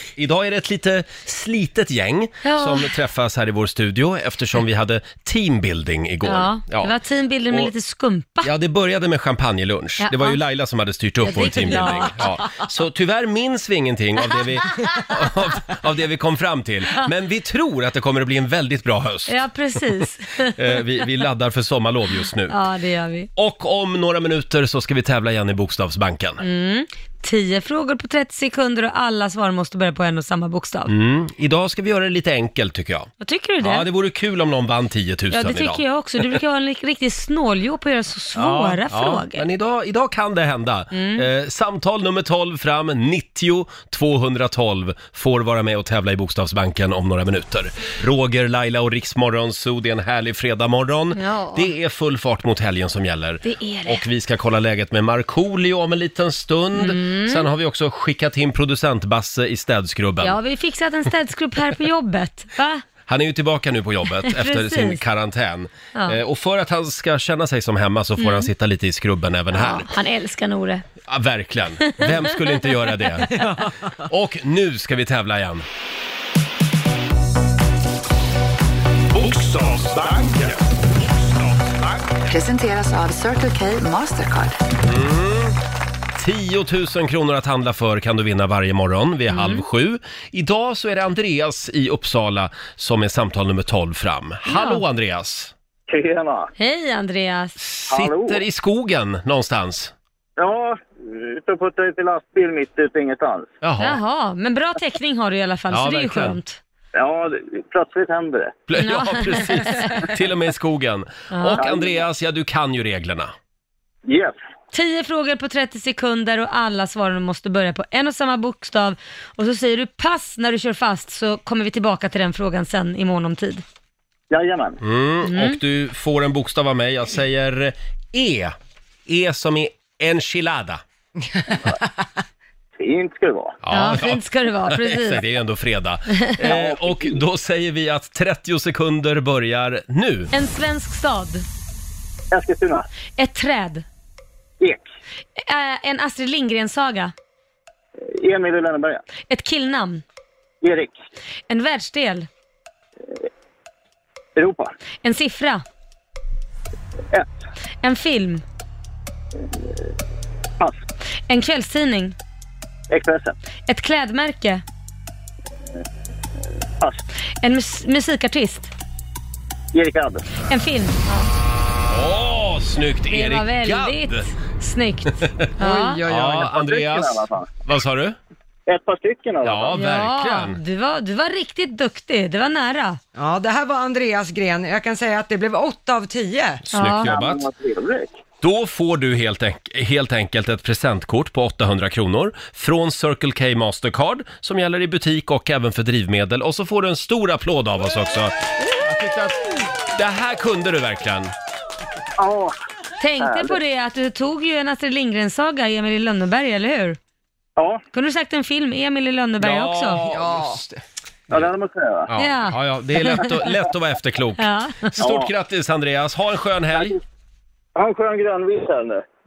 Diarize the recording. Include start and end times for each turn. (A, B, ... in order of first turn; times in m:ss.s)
0:00.2-0:06.9 A
0:02.4-0:02.9 B
0:06.2-0:08.5 B
0:08.4-0:19.3 A
0:10.0-0:10.4 B
0:11.2-0:12.2 B
0:11.6-0:12.1 C
0:19.3-0:20.5 B
0:20.5-0:22.6 A
0:22.5-0:23.3 B
0:23.4-0:26.4 A
0:26.4-0:30.9 B
0:30.9-0:33.1 A
0:33.2-0:33.9 B
0:33.6-0:36.3 A
0:35.3-0:39.4 B
0:38.3-1:00.4 A
0:40.9-0:41.2 B
0:51.1-0:51.7 B
0:53.4-0:54.0 B
0:56.8-0:57.4 B
1:00.2-1:02.8 B
1:03.1-1:09.9 A
1:04.2-1:05.0 B
1:08.2-1:08.5 B
1:09.5-1:10.8 B
1:11.1-1:15.6 A
1:19.1-1:22.0 D
1:22.2-1:24.6 E
1:24.8-1:25.6 A
1:26.2-1:35.5 A
1:29.3-1:29.6 B
1:34.5-1:34.8 B
1:35.9-1:36.5 F
1:36.6-1:37.6 B
1:37.6-1:39.9 A
1:37.9-1:38.4 F
1:40.4-1:43.5 F
1:43.6-1:44.0 A
1:43.8-1:46.6 B
1:45.7-1:46.4 A
1:46.9-1:48.6 F
1:48.7-1:53.3 A
1:48.8-1:50.0 B
1:51.3-1:51.6 B
1:51.6-1:52.0 F
1:54.0-1:54.4 F
1:54.7-2:03.6 B
2:04.3-2:04.8 F
2:04.8-2:08.5 A
2:05.2-2:05.6 B
2:09.1-2:10.8 A
2:11.2-2:11.8 C
2:12.8-2:13.6 F
2:13.6-2:20.3 A
2:13.7-2:15.2 B
2:16.4-2:17.2 F
2:20.3-2:21.4 B
2:22.3-2:22.8 F
2:23.2-2:23.8 B
2:25.4-2:27.1 B
2:28.0-2:29.0 F
2:29.3-2:30.0 B
2:30.6-2:31.0 F
2:31.5-2:32.3 B
2:34.4-2:34.7 F
2:35.0-2:35.6 B
2:37.8-2:38.4 B
2:40.6-2:40.8 F
2:41.3-2:42.1 B
2:42.9-2:43.4 F
2:43.7-2:44.6 B
2:47.4-2:48.7 B
2:49.7-2:50.4 F
2:50.5-2:51.3 B
2:51.9-2:54.2 A
2:53.1-2:56.0 B
2:55.6-2:56.5 C
2:56.0-2:58.2 A
2:56.4-2:57.5 F
2:58.7-2:59.8 F
2:59.4-3:00.6 A
2:59.7-3:03.0 B
3:03.2-3:06.7 C
3:06.7-3:07.4 A
3:06.7-3:07.1 B
3:07.0-3:08.2 F
3:08.4-3:19.3 A
3:19.9-3:21.3 A
3:22.2-3:22.5 F
3:23.0-3:27.0 B
3:23.2-3:23.6 F
3:27.6-3:27.8 F
3:27.9-3:30.0 B
3:29.4-3:31.5 A
3:30.1-3:30.6 C
3:31.3-3:32.1 F
3:32.1-3:36.9 A
3:32.2-3:33.2 B
3:34.4-3:34.9 B
3:35.0-3:35.3 F
3:36.7-3:37.0 F
3:37.8-3:39.0 F